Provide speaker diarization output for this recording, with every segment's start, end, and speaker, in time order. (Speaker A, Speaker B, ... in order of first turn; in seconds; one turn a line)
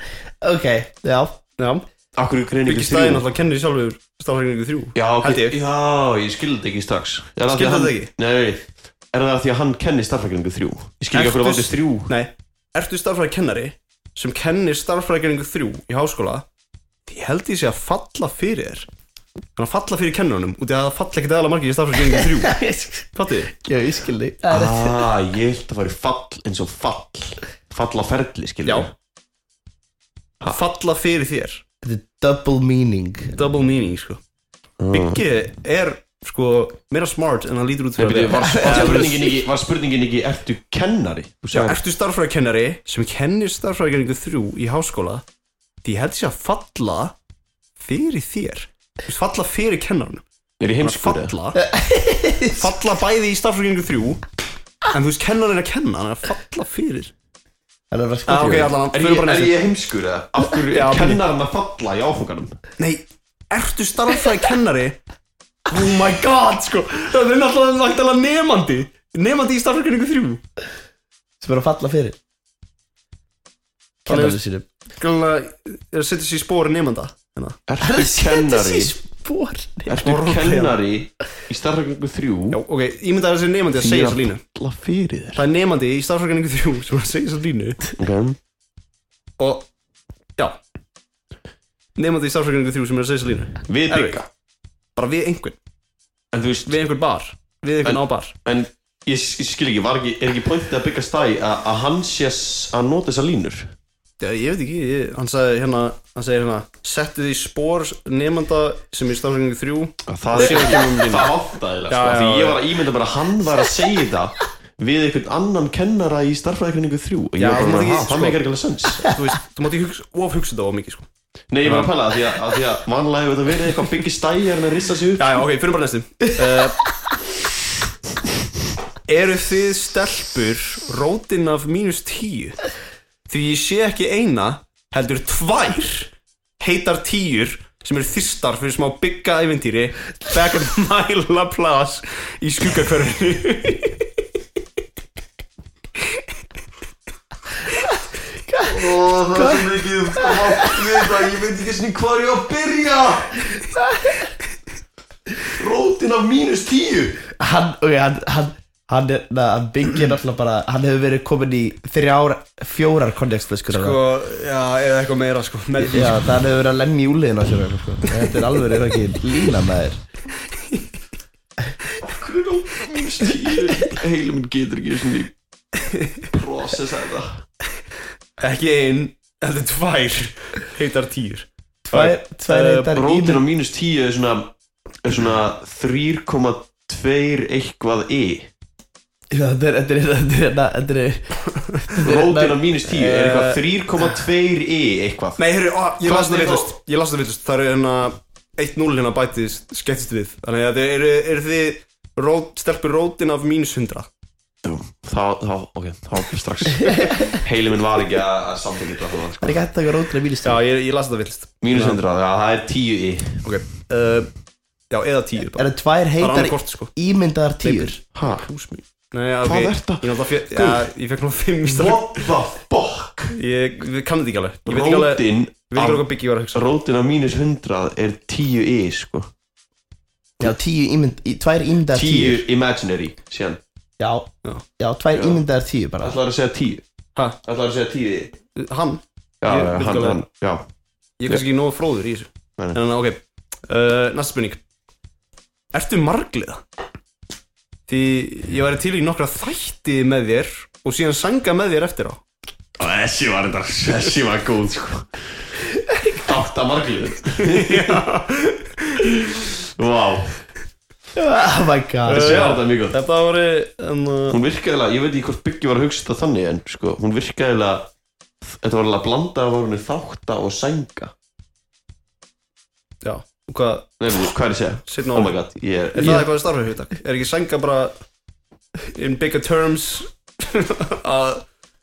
Speaker A: 0.4-1.4
Speaker B: 1.6-1.9
Speaker C: 2.1-3.3
Speaker B: 2.6-5.6
Speaker C: 4.9-12.1
Speaker B: 7.5-8.1
Speaker B: 11.1-16.4
Speaker B: 17.1-18.9
Speaker B: 19.6-22.6
Speaker A: 22.1-25.1
Speaker B: 23.1-23.5
Speaker C: 24.5-28.9
Speaker B: 30.4-31.6
Speaker A: 31.8-33.4
Speaker B: 33.3-34.2
Speaker C: 34.8-35.2
Speaker B: 34.9-39.3
Speaker C: 38.0-41.8
Speaker A: 38.3-39.2
Speaker B: 41.5-45.2
Speaker B: 45.8-47.1
Speaker B: 47.8-50.2
Speaker C: 50.6-51.3
Speaker B: 50.8-51.6
Speaker A: 51.5-52.8
Speaker B: 52.5-54.2
Speaker B: 54.9-57.1
Speaker A: 57.9-58.7
Speaker B: 58.2-59.6
Speaker C: 58.9-62.5
Speaker B: 60.7-61.2
Speaker B: 62.8-65.0
Speaker B: 65.7-70.4
Speaker A: 71.4-72.2
Speaker A: 74.0-74.6
Speaker B: 74.1-74.4
Speaker B: 74.9-77.6
Speaker C: 77.7-78.9
Speaker A: 77.8-80.0
Speaker C: 79.9-82.6
Speaker B: 79.9-80.8
Speaker B: 82.5-84.4
Speaker C: 83.7-85.4
Speaker B: 85.3-87.9
Speaker C: 88.0-88.4
Speaker B: 89.4-89.7
Speaker B: 92.0-94.2
Speaker C: 93.7-94.3
Speaker B: 95.0-95.6
Speaker C: 96.3-96.8
Speaker B: 96.7-98.3
Speaker C: 97.8-103.7
Speaker B: 104.2-111.3
Speaker C: 110.1-119.1
Speaker B: 111.9-112.6
Speaker B: 117.4-118.4
Speaker B: 118.9-121.1
Speaker C: 121.5-125.4
Speaker B: 121.6-121.9
Speaker B: 125.2-126.8
Speaker B: 129.1-132.6
Speaker B: 133.3-144.1
Speaker A: 148.5-151.1
Speaker C: 148.6-153.7
Speaker A: 153.7-154.2
Speaker C: 155.4-157.2
Speaker A: 157.3-164.0
Speaker B: 163.7-166.3
Speaker A: 165.8-170.0
Speaker C: 172.0-175.3
Speaker C: 176.3-177.4
Speaker B: 178.4-182.9
Speaker A: 181.8-183.4
Speaker C: 182.9-184.5
Speaker C: 185.0-188.5
Speaker A: 189.3-192.6
Speaker C: 192.0-195.4
Speaker B: 192.9-193.6
Speaker B: 195.4-204.1
Speaker C: 196.0-196.7
Speaker C: 204.6-209.6
Speaker A: 206.8-207.3
Speaker A: 209.4-210.6
Speaker B: 210.4-212.0
Speaker C: 211.6-213.4
Speaker B: 213.4-214.3
Speaker B: 214.9-215.7
Speaker A: 215.5-218.0
Speaker B: 216.2-216.9
Speaker B: 217.6-222.1
Speaker C: 218.1-218.5
Speaker C: 219.4-220.8
Speaker C: 221.6-223.3
Speaker B: 223.3-226.7
Speaker C: 224.7-229.3
Speaker A: 230.4-232.4
Speaker C: 231.9-233.6
Speaker A: 234.0-236.2
Speaker C: 235.1-235.4
Speaker C: 236.0-236.8
Speaker C: 237.4-238.3
Speaker B: 238.5-240.2
Speaker C: 239.4-240.6
Speaker B: 241.2-244.6
Speaker B: 245.7-246.6
Speaker B: 247.9-252.2
Speaker C: 252.8-255.2
Speaker A: 255.9-256.2
Speaker C: 256.1-258.0
Speaker B: 257.4-259.1
Speaker C: 259.3-260.4
Speaker A: 261.1-262.5
Speaker B: 262.1-264.4
Speaker C: 262.1-263.0
Speaker C: 264.3-267.9
Speaker C: 268.4-271.1
Speaker B: 273.0-273.9
Speaker C: 274.0-276.3
Speaker B: 274.9-275.4
Speaker B: 275.9-277.9
Speaker A: 276.0-276.2
Speaker B: 278.9-281.4